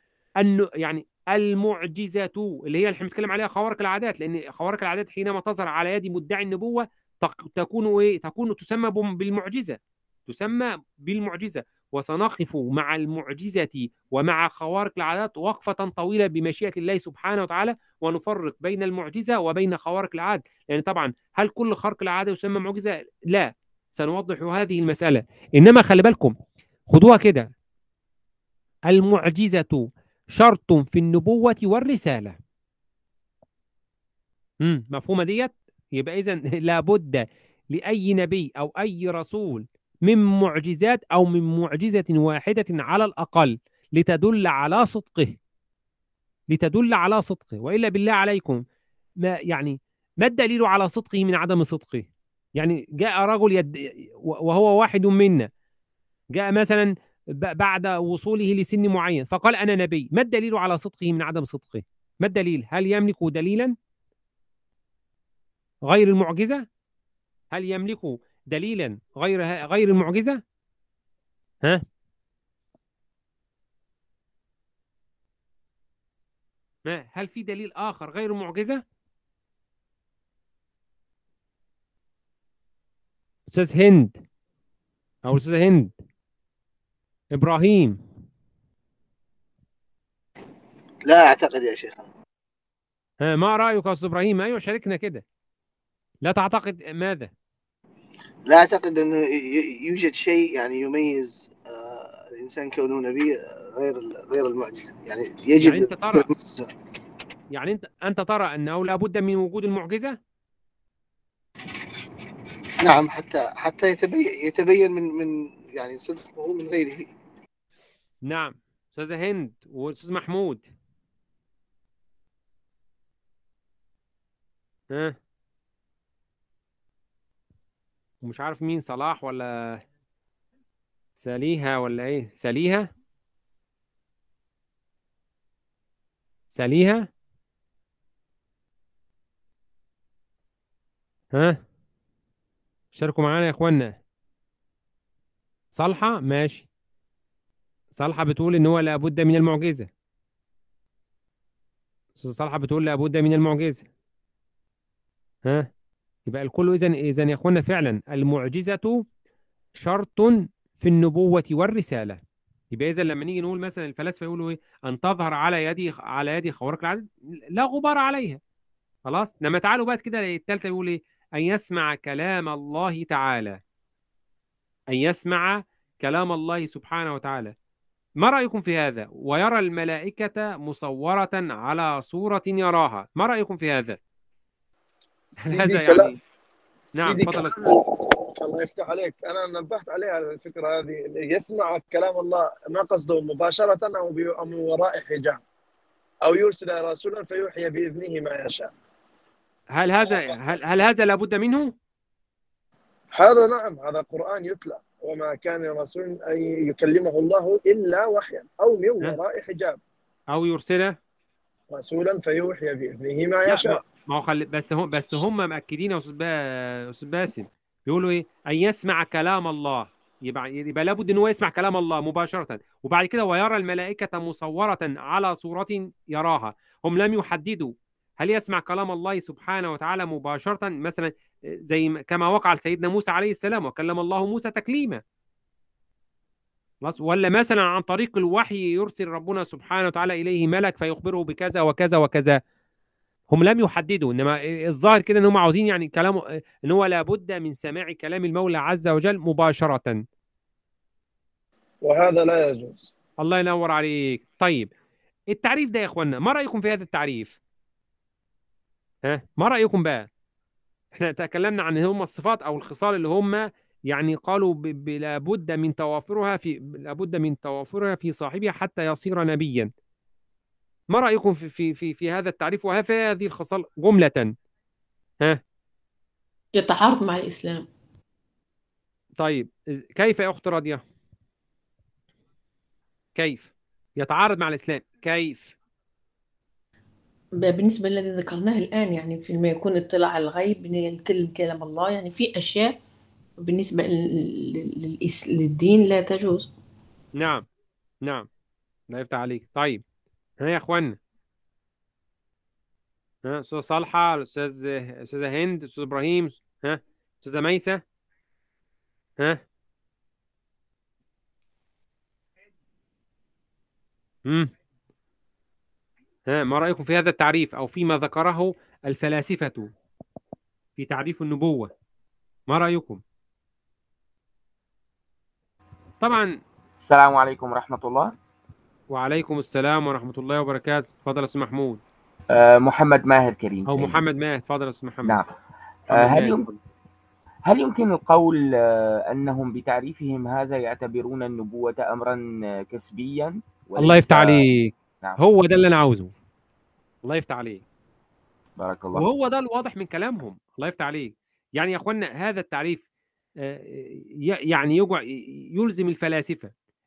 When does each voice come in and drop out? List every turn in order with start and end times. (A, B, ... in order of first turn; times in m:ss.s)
0:00.4-0:26.3 A
0:26.9-0:27.5 A
0:28.9-0:29.8 A
0:30.4-0:32.4 A
0:34.6-0:45.4 A
0:46.5-0:48.6 A
0:49.2-0:55.5 A
0:56.3-1:03.7 A
1:05.8-1:06.6 A
1:07.5-1:10.4 A
1:16.8-1:18.8 A
1:23.5-1:24.2 A
1:25.2-1:25.9 A
1:27.3-1:28.0 A
1:31.0-1:32.1 B
1:33.2-1:35.2 A
1:36.2-1:37.3 A
1:38.5-1:46.7 B
1:45.6-1:46.2 A
1:47.5-1:50.2 A
1:52.8-1:57.1 B
1:58.2-2:00.6 A
2:04.9-2:05.2 A
2:08.2-2:09.8 A
2:11.2-2:12.9 A
2:16.5-2:17.1 A
2:21.3-2:21.6 A
2:22.9-2:24.0 A
2:25.7-2:26.7 A
2:28.0-2:29.9 A
2:32.2-2:33.8 A
2:36.3-2:39.0 A
2:39.8-2:42.2 A
2:42.7-2:48.4 A
2:49.1-2:53.6 A
2:54.9-2:57.5 A
2:58.2-3:04.0 A
3:05.3-3:06.1 C
3:05.4-3:06.2 A
3:07.0-3:07.6 A
3:07.0-3:15.4 C
3:16.2-3:18.7 C
3:19.7-3:21.7 A
3:23.1-3:29.8 C
3:30.3-3:31.0 A
3:31.7-3:33.8 C
3:33.4-3:51.1 A
3:51.7-3:55.0 A
3:56.8-4:02.4 A
4:03.3-4:10.0 A
4:11.8-4:12.9 C
4:13.2-4:14.7 A
4:15.3-4:17.4 A
4:19.0-4:20.1 A
4:20.9-4:29.7 A
4:30.9-4:34.3 A
4:36.6-4:37.6 D
4:39.2-4:40.8 A
4:43.2-4:45.5 A
4:47.4-4:52.8 D
4:53.4-4:56.5 D
4:57.2-4:57.4 A
4:58.9-4:59.8 A
5:00.4-5:01.0 A
5:03.2-5:07.8 A
5:16.3-5:19.7 A
5:20.8-5:21.7 A
5:22.5-5:23.0 A
5:26.0-5:26.3 A
5:26.8-5:28.1 E
5:28.9-5:31.8 A
5:32.3-5:34.0 E
5:33.7-5:35.2 A
5:35.0-5:35.3 E
5:35.9-5:36.5 A
5:35.9-5:36.5 E
5:37.4-5:44.4 E
5:43.8-5:46.1 A
5:47.0-5:47.6 A
5:48.6-5:49.0 E
5:49.0-5:52.8 A
5:53.4-5:56.5 A